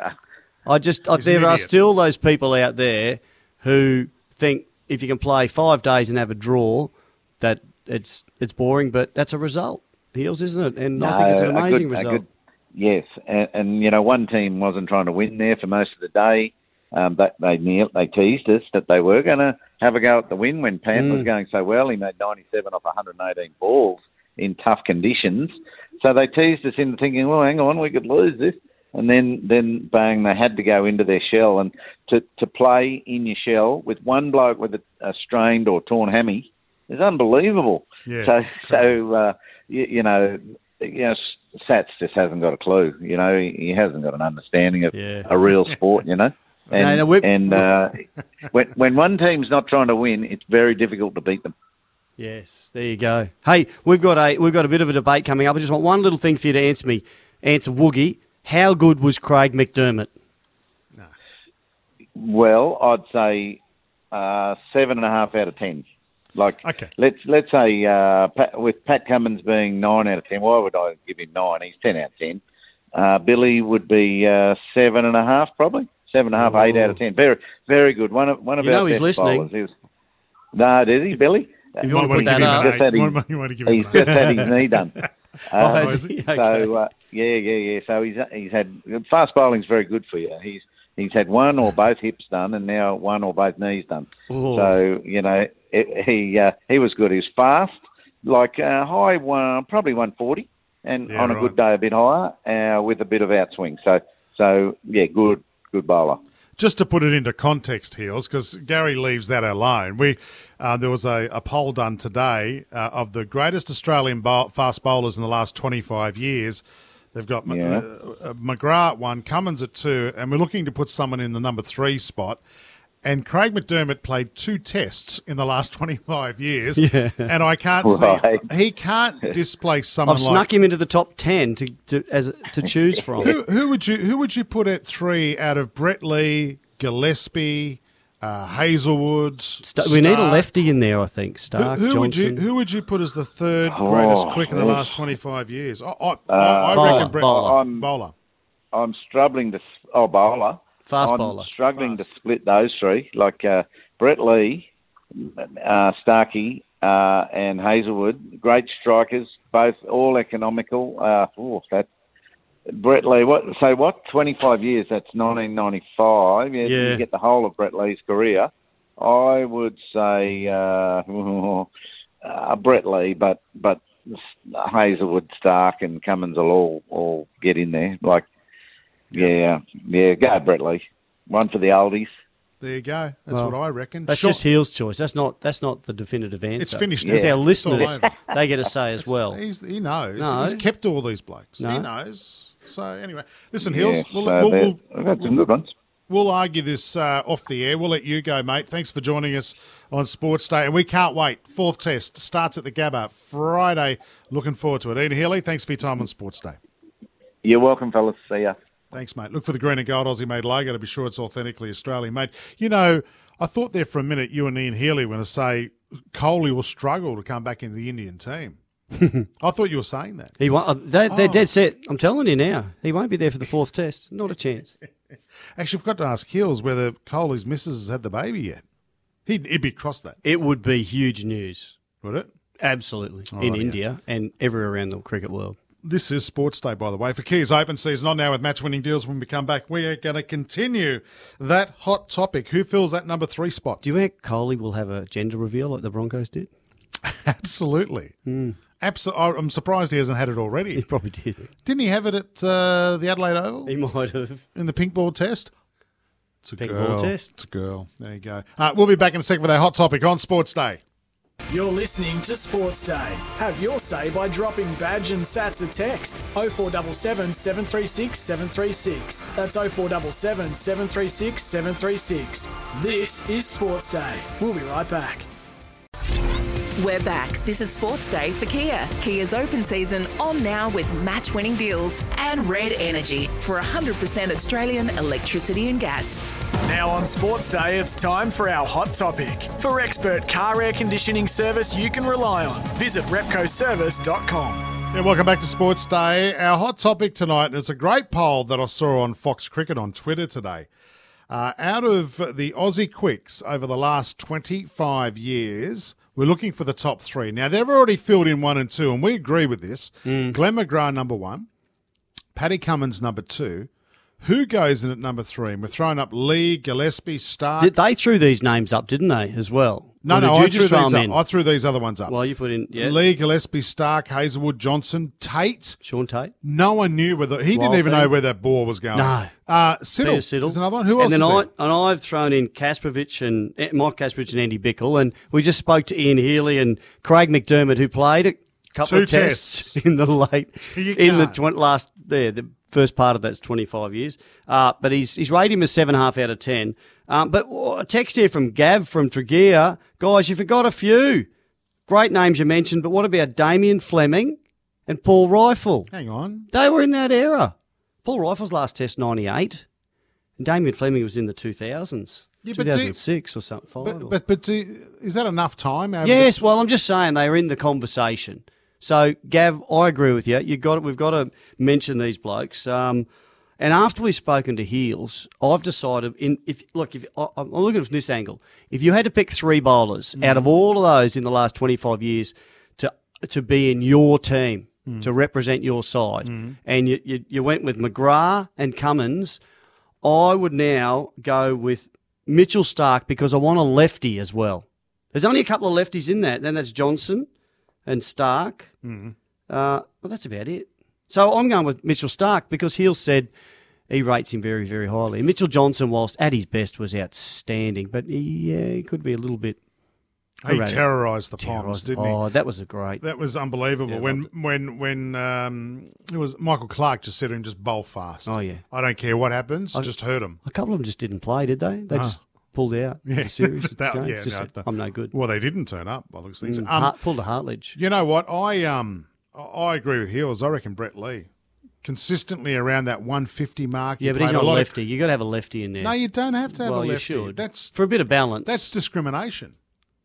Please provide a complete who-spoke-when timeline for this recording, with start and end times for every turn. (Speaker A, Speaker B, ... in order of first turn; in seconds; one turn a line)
Speaker A: 0.7-12.2
Speaker B: 1.2-1.7
Speaker C: 11.0-51.5
Speaker A: 20.9-21.3
Speaker B: 38.1-38.9
Speaker A: 44.9-45.3
Speaker A: 46.7-47.7
Speaker A: 52.2-60.1
Speaker C: 62.1-63.6
Speaker C: 64.1-65.8
Speaker C: 66.4-72.4
Speaker B: 66.6-66.9
Speaker C: 72.9-79.7
Speaker A: 76.4-77.0
Speaker A: 78.6-79.5
Speaker C: 80.5-85.0
Speaker A: 81.8-82.8
Speaker B: 81.8-85.0
Speaker A: 83.9-84.5
Speaker C: 85.5-106.2
Speaker A: 85.6-86.7
Speaker B: 85.7-86.1
Speaker A: 94.3-94.8
Speaker B: 101.1-101.6
Speaker B: 106.6-116.6
Speaker B: 117.1-122.4
Speaker C: 117.5-117.8
Speaker B: 123.0-130.5
Speaker A: 126.8-127.3
Speaker C: 127.8-128.5
Speaker A: 130.1-133.3
Speaker B: 133.2-140.5
Speaker A: 139.6-142.5
Speaker B: 141.6-148.1
Speaker C: 143.6-145.0
Speaker C: 146.3-147.9
Speaker A: 146.7-147.6
Speaker C: 148.7-161.9
Speaker A: 150.9-151.5
Speaker C: 162.7-171.7
Speaker A: 166.6-167.0
Speaker C: 172.2-178.3
Speaker C: 179.1-182.1
Speaker B: 182.6-184.4
Speaker A: 184.1-189.4
Speaker B: 186.6-188.2
Speaker C: 187.0-188.0
Speaker B: 189.2-195.3
Speaker A: 190.2-190.6
Speaker A: 191.6-191.9
Speaker C: 193.6-195.7
Speaker B: 196.1-206.6
Speaker C: 207.4-208.6
Speaker B: 208.9-218.6
Speaker A: 218.9-219.3
Speaker B: 219.4-220.3
Speaker A: 220.4-224.7
Speaker B: 221.1-221.4
Speaker B: 225.6-228.6
Speaker B: 229.3-230.2
Speaker A: 230.2-231.8
Speaker B: 232.0-232.3
Speaker A: 232.6-235.6
Speaker B: 233.3-233.8
Speaker B: 235.8-243.8
Speaker A: 243.8-246.5
Speaker B: 247.0-248.2
Speaker A: 248.3-248.6
Speaker B: 248.8-250.8
Speaker A: 250.8-251.5
Speaker B: 251.7-253.7
Speaker A: 253.7-254.4
Speaker B: 254.6-255.5
Speaker B: 256.4-260.8
Speaker A: 256.6-257.3
Speaker D: 261.5-275.3
Speaker E: 276.8-286.3
Speaker D: 286.6-294.7
Speaker B: 294.9-300.7
Speaker B: 301.3-311.5
Speaker A: 310.1-310.4
Speaker B: 312.4-313.7
Speaker B: 314.2-317.8
Speaker A: 317.6-321.2
Speaker B: 320.0-322.1
Speaker A: 322.1-323.0
Speaker B: 322.7-325.8
Speaker A: 325.8-326.3
Speaker B: 326.4-331.5
Speaker A: 327.5-328.1
Speaker A: 328.9-329.3
Speaker A: 330.0-351.3
Speaker B: 338.8-339.8
Speaker B: 340.6-341.4
Speaker A: 351.9-355.9
Speaker B: 355.9-356.5
Speaker A: 356.5-359.6
Speaker A: 360.4-364.2
Speaker B: 362.4-363.0
Speaker B: 363.8-366.3
Speaker A: 366.0-373.1
Speaker A: 373.6-389.4
Speaker B: 380.2-380.5
Speaker B: 384.9-385.1
Speaker B: 386.2-386.6
Speaker A: 390.0-397.3
Speaker A: 397.9-398.7
Speaker B: 398.8-399.1
Speaker A: 399.5-403.3
Speaker A: 403.9-409.6
Speaker B: 410.4-412.2
Speaker A: 410.5-413.0
Speaker B: 413.0-420.4
Speaker A: 413.9-414.3
Speaker A: 418.3-418.6
Speaker A: 420.4-425.1
Speaker B: 421.9-422.2
Speaker B: 423.1-426.9
Speaker A: 426.4-427.8
Speaker B: 427.8-431.3
Speaker B: 431.8-434.8
Speaker A: 434.0-435.9
Speaker B: 435.8-437.8
Speaker A: 436.5-438.7
Speaker B: 438.4-439.6